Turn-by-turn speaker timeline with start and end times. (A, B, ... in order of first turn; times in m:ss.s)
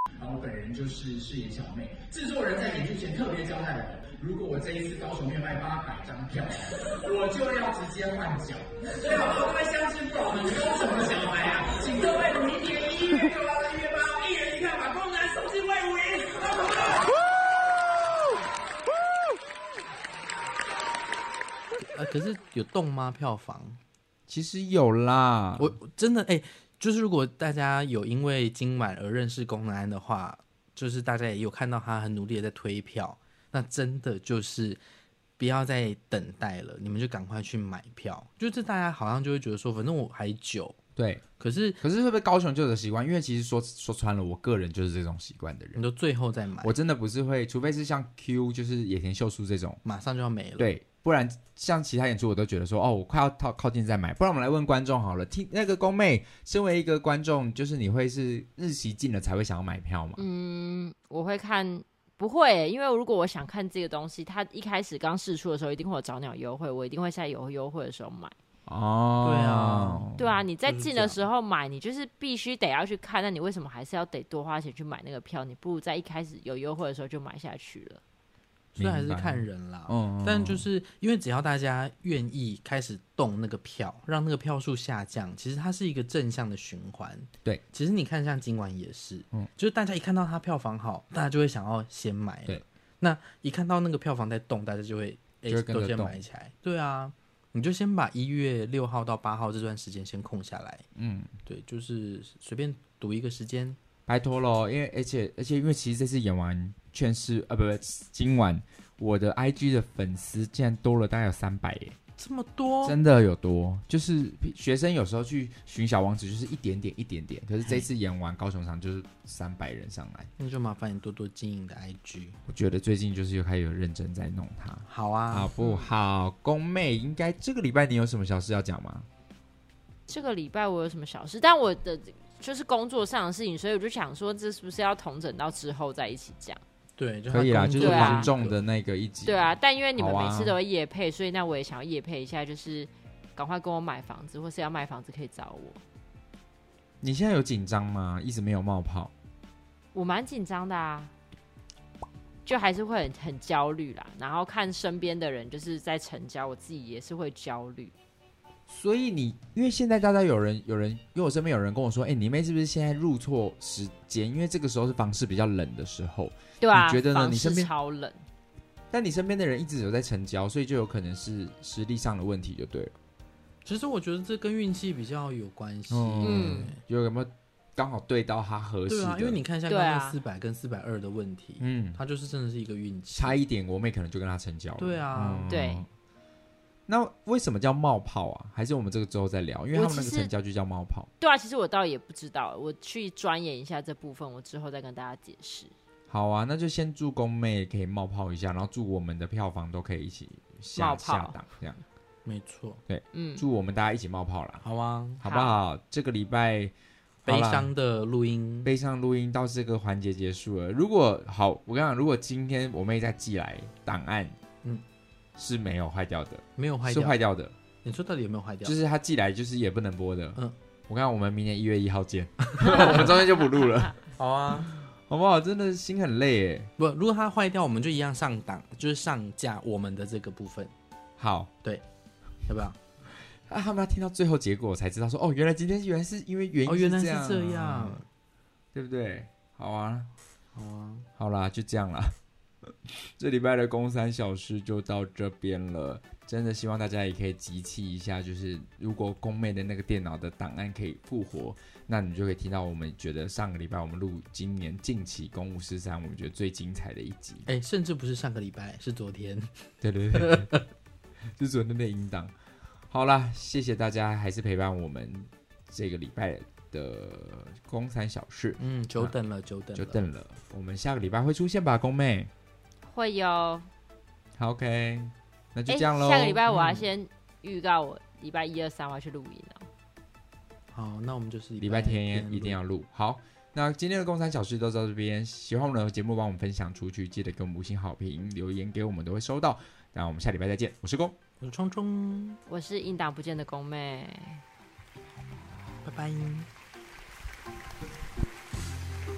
0:00.2-0:17.1 A
0:21.9-0:23.8 B
0:24.3-0:25.7 C
0:25.6-0:34.8 B
0:35.4-0:40.8 B
0:41.0-0:41.2 C
0:41.4-0:41.8 B
0:41.8-0:45.8 C
0:45.7-0:46.7 B
0:46.6-0:49.8 C
0:49.8-0:50.7 B
0:50.6-1:00.2 C
1:00.2-1:08.3 D
1:08.6-1:10.2 C
1:09.2-1:10.1 B
1:10.2-1:18.0 D
1:10.6-1:11.2 B
1:18.7-1:40.9 B
1:18.8-1:20.7 C
1:35.5-1:36.2 C
1:41.0-1:41.3 C
1:41.4-1:43.8 B
1:44.1-1:52.0 C
1:52.2-1:53.0 B
1:52.8-2:00.3 C
2:00.4-2:02.4 B
2:02.5-2:09.1 C
2:04.9-2:05.5 B
2:10.1-2:16.6 D
2:17.0-2:18.6 B
2:17.3-2:20.6 C
2:17.8-2:18.3 D
2:19.2-2:25.8 D
2:27.0-2:29.1 C
2:29.9-2:31.1 D
2:32.4-2:37.9 D
2:38.7-2:47.7 C
2:46.6-2:48.2 D
2:48.9-2:52.9 C
2:53.6-2:56.8 B
2:55.9-2:59.4 C
2:56.2-2:56.7 D
2:58.9-3:03.4 B
2:59.7-3:00.2 D
3:01.6-3:02.0 C
3:03.1-3:05.9 C
3:04.8-3:05.5 B
3:05.5-3:05.8 D
3:06.9-3:11.1 C
3:09.7-3:10.3 D
3:11.2-3:15.7 D
3:16.1-3:21.8 C
3:20.8-3:21.4 D
3:22.2-3:22.8 B
3:22.9-3:24.6 C
3:23.1-3:23.4 D
3:24.6-3:25.2 B
3:25.2-3:26.7 C
3:25.2-3:25.6 D
3:27.2-3:27.7 C
3:27.2-3:28.7 B
3:28.6-3:34.4 C
3:35.4-3:37.5 C
3:36.6-3:37.2 B
3:37.8-3:38.8 B
3:38.6-3:44.0 C
3:42.6-3:43.0 B
3:44.2-3:44.7 B
3:44.8-3:46.7 C
3:46.8-3:50.7 B
3:51.2-3:51.5 C
3:52.5-3:52.8 B
3:53.5-3:58.0 C
3:56.6-3:58.0 B
3:58.7-4:00.1 C
4:00.5-4:01.1 B
4:01.2-4:17.5 C
4:17.5-4:19.5 B
4:19.8-4:20.6 C
4:21.4-4:22.3 C
4:22.9-4:29.1 C
4:28.6-4:30.0 B
4:29.7-4:32.3 C
4:32.8-4:33.7 D
4:34.4-4:36.4 C
4:35.7-4:39.7 D
4:36.5-4:36.8 B
4:40.7-4:42.6 B
4:41.6-4:51.2 C
4:51.4-4:52.4 B
4:52.5-4:54.4 D
4:55.8-4:56.5 B